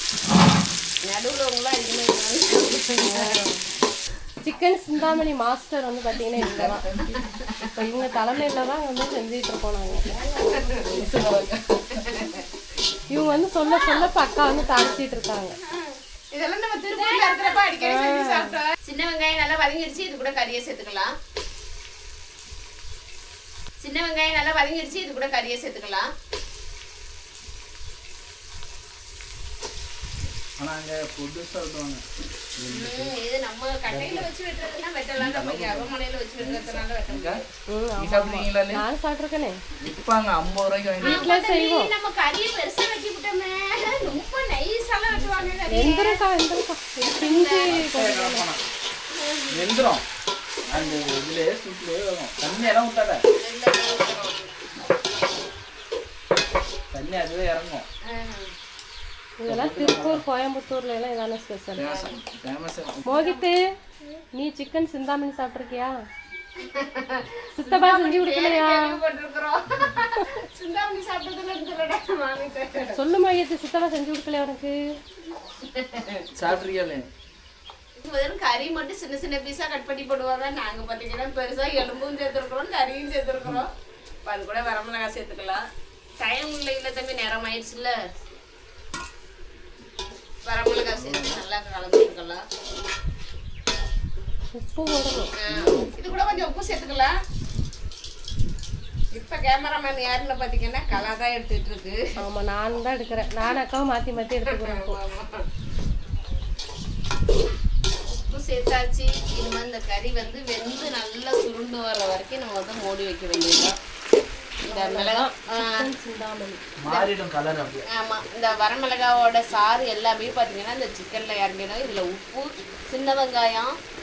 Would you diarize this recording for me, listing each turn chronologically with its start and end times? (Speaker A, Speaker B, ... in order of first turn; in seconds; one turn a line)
Speaker A: 1.0-3.4
Speaker B: 3.0-3.6
Speaker B: 4.4-6.8
Speaker C: 6.4-7.2
Speaker B: 7.7-10.1
Speaker A: 10.3-10.8
Speaker C: 10.6-12.1
Speaker A: 12.1-12.4
Speaker B: 13.1-15.6
Speaker A: 13.7-15.0
Speaker A: 15.7-21.1
Speaker B: 16.9-18.5
Speaker A: 23.8-26.1
Speaker C: 30.6-32.0
Speaker C: 32.6-33.1
Speaker A: 32.7-37.4
Speaker C: 33.9-34.3
Speaker C: 35.2-37.4
Speaker B: 37.7-39.6
Speaker C: 38.0-38.8
Speaker C: 39.8-41.3
Speaker B: 41.0-41.9
Speaker A: 41.0-46.2
Speaker C: 45.1-45.6
Speaker B: 45.7-48.5
Speaker A: 47.0-47.8
Speaker C: 47.7-48.6
Speaker A: 49.1-49.7
Speaker C: 49.5-50.0
Speaker C: 50.7-53.2
Speaker A: 53.3-54.6
Speaker C: 56.9-57.9
Speaker A: 58.1-58.5
Speaker B: 59.4-62.1
Speaker C: 59.5-60.2
Speaker C: 61.8-63.1
Speaker B: 63.0-63.6
Speaker B: 64.3-66.0
Speaker A: 66.6-73.0
Speaker B: 67.5-69.0
Speaker B: 72.9-74.8
Speaker A: 75.6-76.5
Speaker C: 76.3-77.1
Speaker A: 78.0-83.7
Speaker A: 84.2-85.6
Speaker A: 86.2-88.0
Speaker A: 90.4-92.4
Speaker C: 90.9-91.4
Speaker B: 94.5-95.3
Speaker A: 95.4-97.2
Speaker C: 95.5-95.9
Speaker A: 99.1-102.0
Speaker B: 102.2-105.0
Speaker A: 104.5-105.5
Speaker A: 108.1-113.8
Speaker A: 114.7-115.8
Speaker B: 114.7-116.6
Speaker C: 116.8-117.8
Speaker A: 117.9-123.7